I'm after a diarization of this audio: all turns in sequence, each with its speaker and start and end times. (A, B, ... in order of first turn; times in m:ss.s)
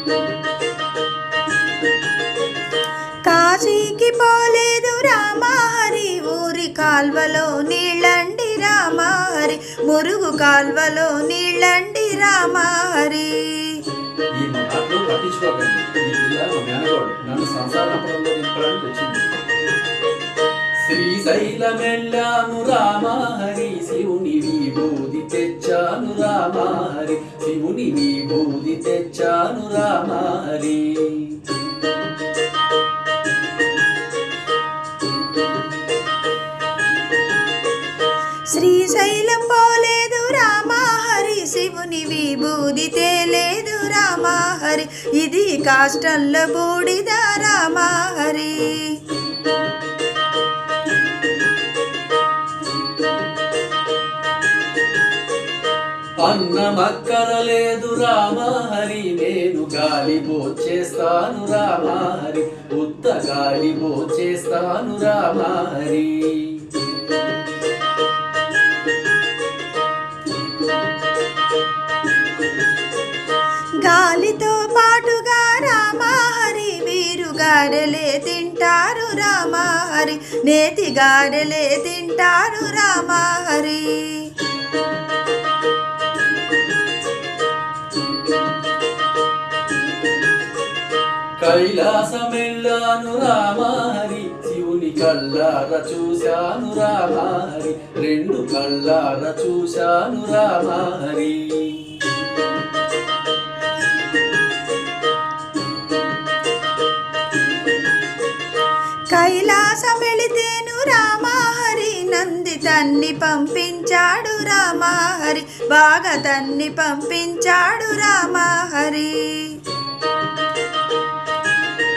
0:03.3-0:13.8 A
0:14.4-0:19.2 B
0:20.8-0:31.4 B
0:38.5-0:49.0 A
0:56.2-1:06.6 B
1:13.8-1:24.3 A
1:31.4-1:42.0 B
1:49.1-1:59.6 A